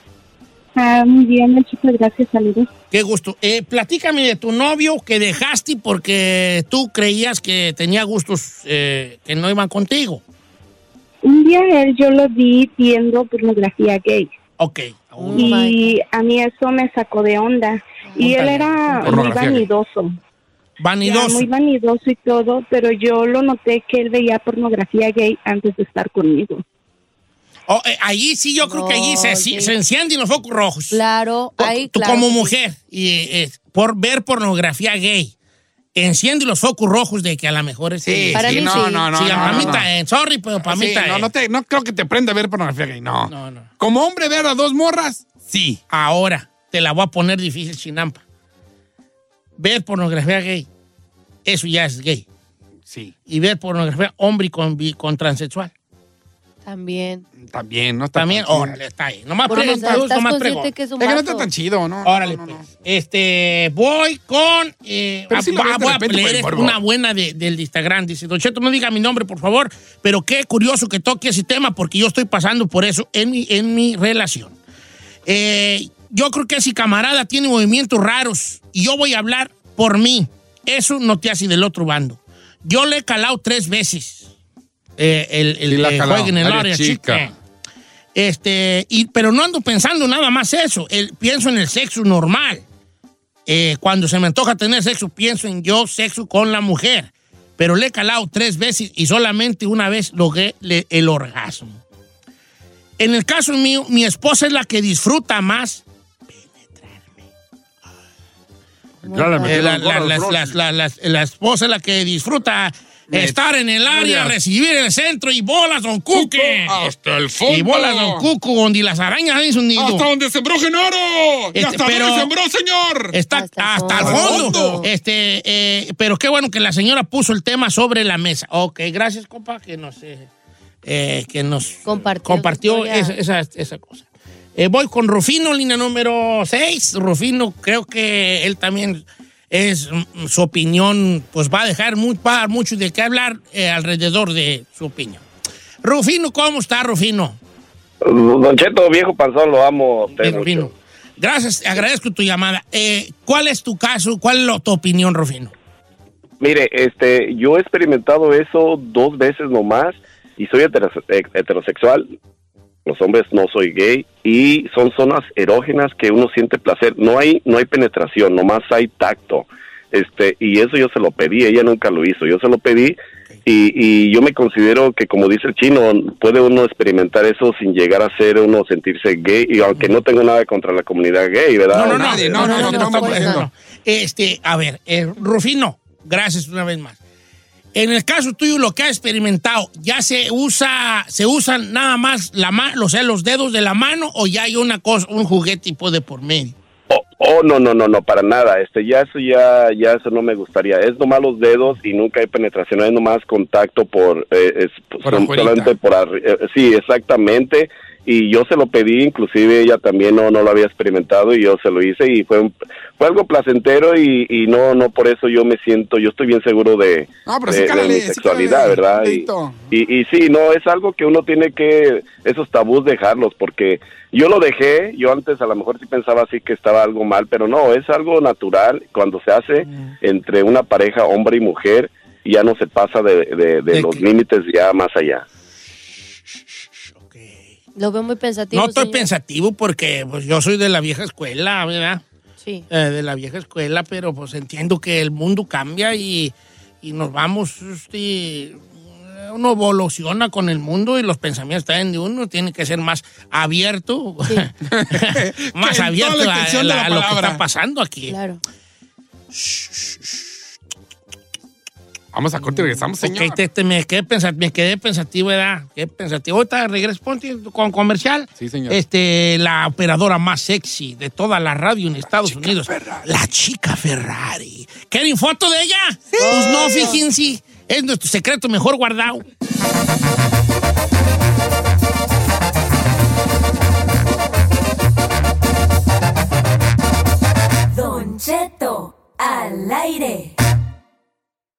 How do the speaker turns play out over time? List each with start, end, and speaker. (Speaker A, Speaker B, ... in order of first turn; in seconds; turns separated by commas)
Speaker A: 0.8-2.7, Speaker B: 2.9-10.2, Speaker A: 11.2-14.3, Speaker B: 14.6-15.6, Speaker C: 15.2-16.0, Speaker A: 15.3-20.1, Speaker C: 18.1-19.0, Speaker B: 18.2-18.6, Speaker D: 19.0-19.7, Speaker B: 20.8-21.5, Speaker A: 21.0-26.6, Speaker B: 27.7-31.0, Speaker C: 28.6-29.8, Speaker C: 30.9-32.5, Speaker B: 31.6-35.3, Speaker B: 35.9-41.3, Speaker D: 38.0-39.9, Speaker C: 38.3-39.8, Speaker D: 40.6-45.8, Speaker B: 43.3-43.7, Speaker B: 45.9-48.2, Speaker B: 49.6-50.7, Speaker B: 51.5-52.2, Speaker D: 52.9-53.1, Speaker B: 53.3-55.7, Speaker C: 56.6-57.2, Speaker D: 57.4-58.8, Speaker B: 58.1-60.7, Speaker C: 59.5-61.5, Speaker D: 59.5-60.0, Speaker D: 61.0-62.7, Speaker B: 62.0-74.5, Speaker D: 65.3-66.8, Speaker B: 75.2-84.3, Speaker B: 85.0-87.3, Speaker D: 85.7-87.3, Speaker B: 88.1-92.6, Speaker B: 93.5-101.8, Speaker B: 103.0-107.2, Speaker D: 109.0-110.5, Speaker C: 109.1-109.6, Speaker B: 109.4-116.8, Speaker D: 113.1-114.3, Speaker D: 116.1-118.3, Speaker B: 117.5-120.0, Speaker D: 119.8-123.2, Speaker B: 121.5-122.3, Speaker B: 123.1-130.3, Speaker C: 123.3-124.9, Speaker D: 124.0-124.8, Speaker B: 130.8-145.2, Speaker C: 131.8-133.2, Speaker B: 145.8-147.4, Speaker E: 148.0-150.7, Speaker B: 150.2-155.5, Speaker E: 156.4-162.1, Speaker E: 162.8-182.5, Speaker B: 181.7-187.0, Speaker D: 181.8-183.5, Speaker C: 182.0-183.4, Speaker B: 187.7-196.6, Speaker E: 196.9-235.2, Speaker D: 205.0-205.7, Speaker D: 217.3-219.6, Speaker B: 233.7-234.0, Speaker B: 237.0-237.5, Speaker C: 237.8-239.1, Speaker B: 238.5-242.0, Speaker B: 242.7-258.1, Speaker D: 254.7-257.4, Speaker C: 258.1-258.4, Speaker B: 259.4-259.9, Speaker D: 262.1-263.4, Speaker B: 262.4-279.2, Speaker D: 268.4-268.8, Speaker D: 272.2-273.0, Speaker D: 276.1-276.8, Speaker C: 276.2-277.0, Speaker F: 287.7-290.3